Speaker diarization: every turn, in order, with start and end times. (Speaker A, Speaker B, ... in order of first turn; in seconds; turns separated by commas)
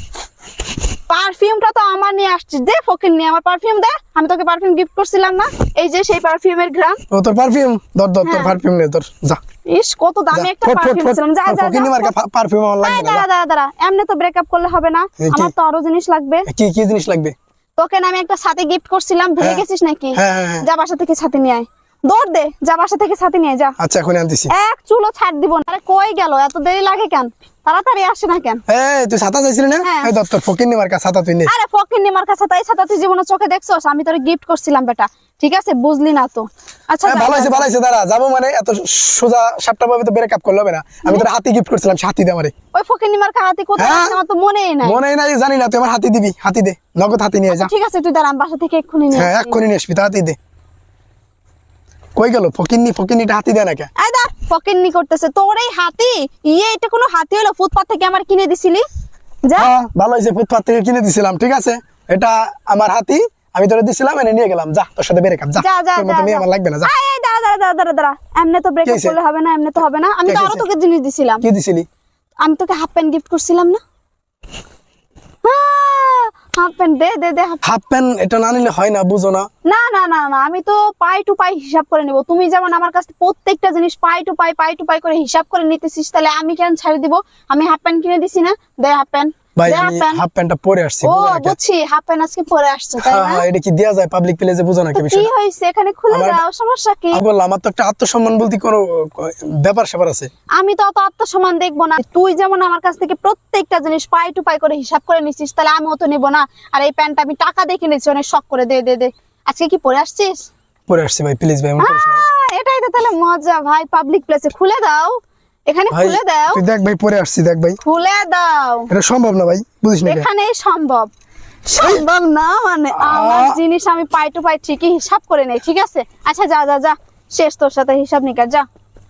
Speaker A: 1.1-7.0, Speaker B: 7.1-9.4, Speaker A: 8.2-8.5, Speaker A: 9.7-12.1, Speaker B: 10.3-13.2, Speaker A: 12.8-16.5, Speaker B: 15.2-15.5, Speaker B: 16.5-17.3, Speaker A: 17.8-23.8, Speaker B: 19.4-20.7, Speaker B: 23.8-24.5, Speaker A: 24.5-28.6, Speaker B: 28.7-31.5, Speaker A: 29.8-30.1, Speaker A: 31.5-37.7, Speaker B: 37.0-42.5, Speaker A: 42.7-45.0, Speaker B: 43.8-44.1, Speaker B: 44.8-47.7, Speaker A: 47.5-49.6, Speaker B: 49.1-50.4, Speaker B: 52.1-53.9, Speaker A: 54.0-58.9, Speaker A: 59.4-59.7, Speaker B: 59.5-66.9, Speaker A: 65.6-71.4, Speaker B: 68.8-69.2, Speaker B: 70.2-70.7, Speaker B: 71.4-71.8, Speaker A: 72.4-73.8, Speaker A: 75.4-77.6, Speaker B: 77.6-79.5, Speaker A: 79.6-90.2, Speaker B: 89.5-91.5, Speaker A: 91.0-93.4, Speaker B: 93.0-95.3, Speaker A: 94.9-97.2, Speaker B: 96.1-96.4, Speaker B: 97.1-100.3, Speaker A: 100.5-110.5, Speaker B: 110.9-112.2, Speaker A: 111.8-116.6, Speaker B: 115.9-117.8, Speaker A: 117.8-118.9, Speaker B: 118.9-120.2, Speaker A: 120.0-121.1, Speaker A: 121.7-128.7, Speaker B: 123.0-123.6